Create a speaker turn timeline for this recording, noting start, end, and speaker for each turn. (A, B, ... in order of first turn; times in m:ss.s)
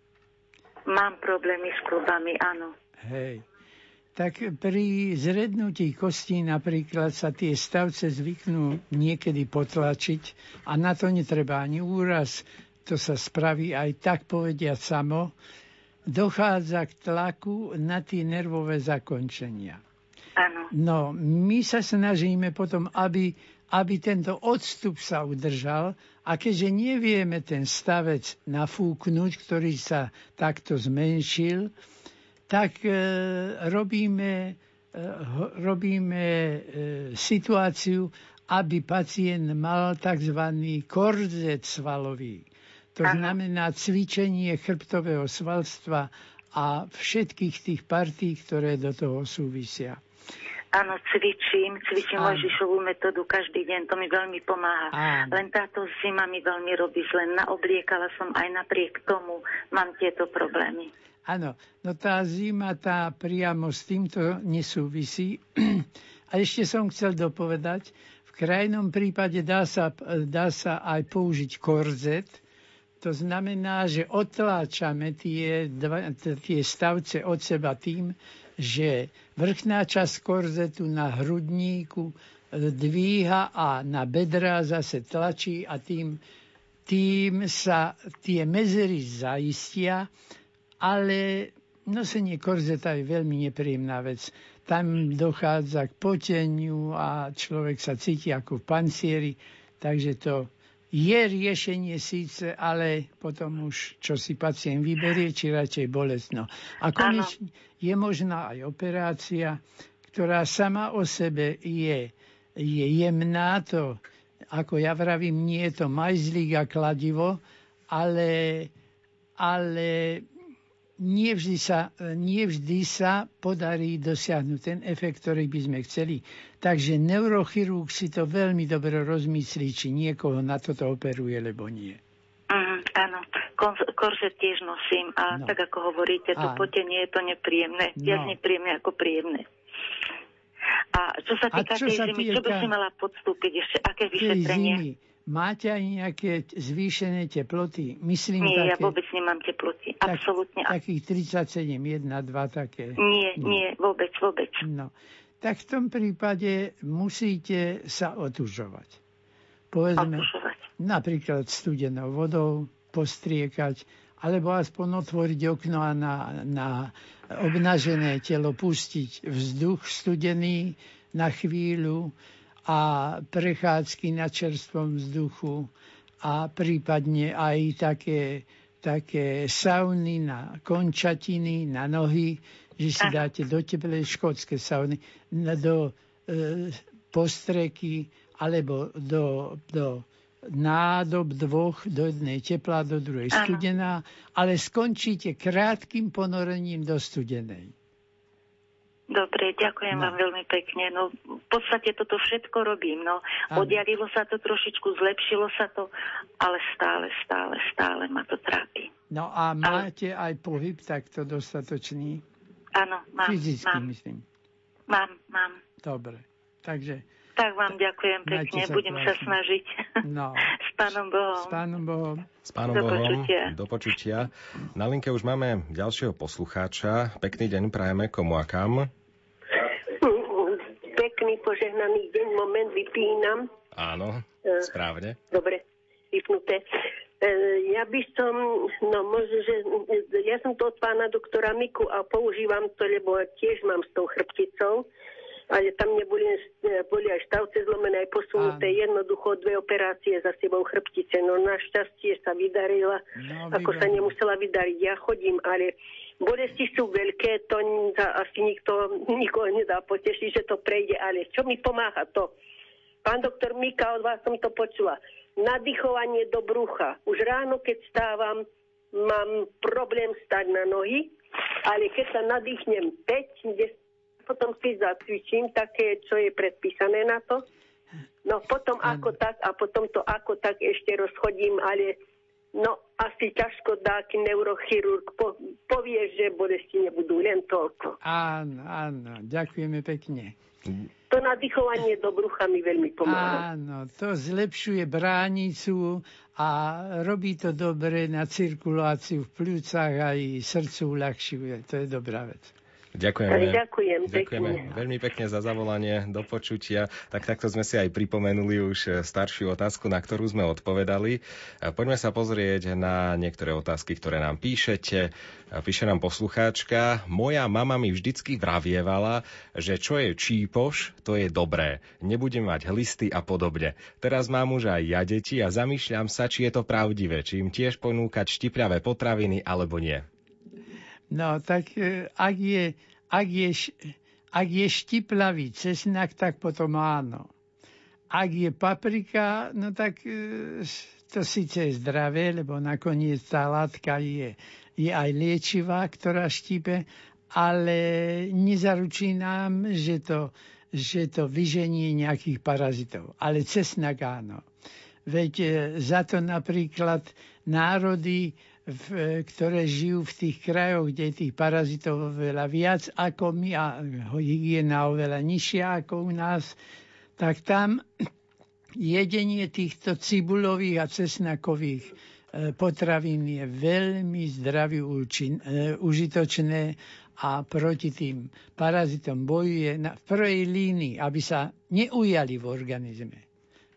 0:00.9-0:02.7 A
0:03.0-0:03.4 B
0:04.2-0:15.3 B
0:16.1-0:19.8 B
0:20.4-0:20.7 A
0:20.7-0:31.7 B
0:32.5-0:50.0 B
0:43.0-0:43.4 A
0:50.7-1:00.9 A
0:52.2-0:52.5 B
0:54.9-0:55.4 B
1:01.3-1:12.4 B
1:13.0-1:26.2 B
1:26.9-1:30.1 B
1:30.8-1:58.7 B
1:47.0-1:47.3 A
1:59.4-2:00.3 B
2:01.0-2:12.0 B
2:12.5-2:19.5 A
2:16.4-2:16.7 B
2:18.0-2:18.4 B
2:20.9-2:24.8 A
2:21.5-2:22.7 B
2:24.2-2:28.9 B
2:28.4-2:30.7 A
2:30.0-2:33.6 B
2:33.0-2:34.6 A
2:34.6-2:39.0 B
2:39.7-2:52.2 B
2:40.0-2:40.6 A
2:52.7-2:55.7 B
2:56.2-3:17.7 B
3:13.3-3:13.6 A
3:19.1-3:28.9 A
3:23.5-3:23.8 B
3:29.1-3:32.2 B
3:32.8-3:33.9 A
3:33.2-3:34.2 B
3:34.9-3:35.6 A
3:35.8-3:37.0 B
3:37.4-3:40.0 A
3:38.2-3:39.4 B
3:40.0-3:40.6 B
3:40.7-3:41.6 A
3:41.4-3:42.3 B
3:42.5-3:48.9 C
3:42.7-3:43.5 A
3:50.0-3:53.5 D
3:53.8-3:55.2 C
3:55.3-3:56.6 D
3:57.2-4:04.8 D
4:05.5-4:22.3 D
4:08.4-4:08.8 B
4:13.2-4:14.1 B
4:23.0-4:31.1 D
4:31.6-4:37.4 D
4:38.2-4:42.0 D
4:38.8-4:39.1 B
4:42.5-4:48.0 D
4:48.0-4:50.4 B
4:51.1-4:53.4 D
4:53.0-5:02.5 B
5:03.0-5:30.1 C
5:03.3-5:04.6 D
5:31.1-5:37.3 B
5:38.1-5:54.4 B
5:55.1-6:06.6 B
6:07.2-6:07.9 B
6:08.8-6:23.2 B